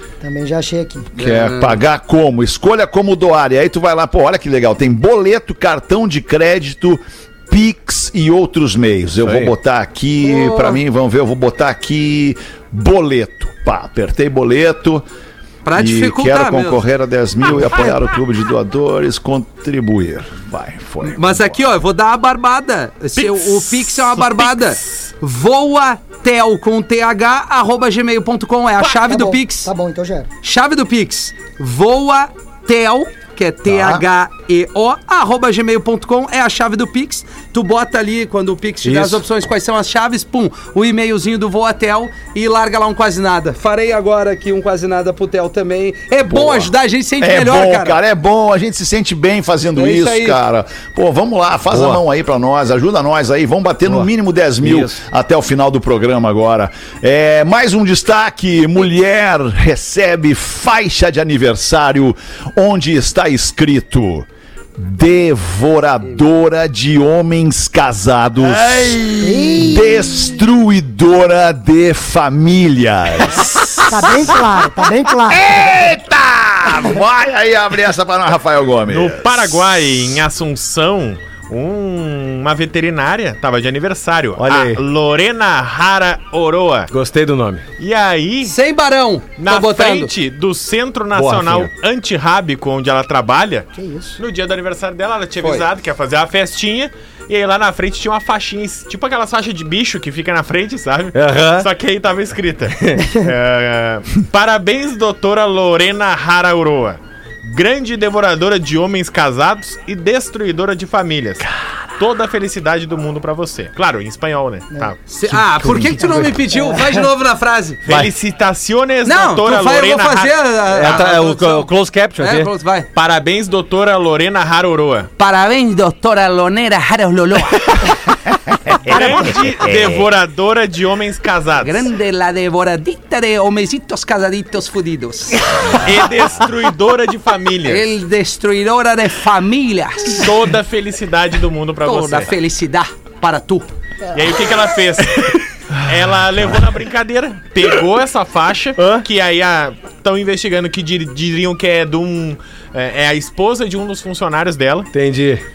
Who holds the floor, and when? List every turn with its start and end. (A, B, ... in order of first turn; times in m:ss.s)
0:00.2-0:01.1 A
0:01.2-0:15.0 B
0:01.2-0:01.8 C
0:09.2-0:09.5 D
0:15.6-0:16.8 C
0:15.8-0:21.6 B
0:21.0-0:29.7 C
0:23.2-0:25.1 E
0:28.9-0:30.3 A
0:30.4-0:48.0 C
0:33.7-0:34.0 B
0:38.8-0:39.2 D
0:46.3-1:14.4 B
0:49.7-0:50.4 C
0:51.7-0:52.0 D
0:54.6-0:55.0 D
1:09.2-1:10.3 A
1:13.9-1:15.8 A
1:15.2-1:20.1 B
1:18.9-1:26.9 E
1:24.4-1:24.8 D
1:26.9-1:27.6 D
1:27.8-1:28.6 E
1:28.4-1:30.1 C
1:29.4-1:55.0 E
1:31.1-1:31.7 D
1:33.8-1:34.2 A
1:41.1-1:41.7 D
1:55.1-1:57.8 C
1:56.5-1:57.0 A
1:57.8-2:00.4 E
1:57.8-1:58.1 D
1:59.0-2:02.9 C
2:00.7-2:02.5 D
2:02.9-2:05.1 E
2:05.2-2:07.9 C
2:08.6-2:10.0 B
2:08.8-2:11.9 E
2:11.6-2:15.9 C
2:15.7-2:17.9 E
2:17.6-2:20.3 C
2:20.1-2:22.3 E
2:21.8-2:23.7 C
2:24.1-2:34.9 E
2:28.8-2:29.0 D
2:34.9-2:35.4 D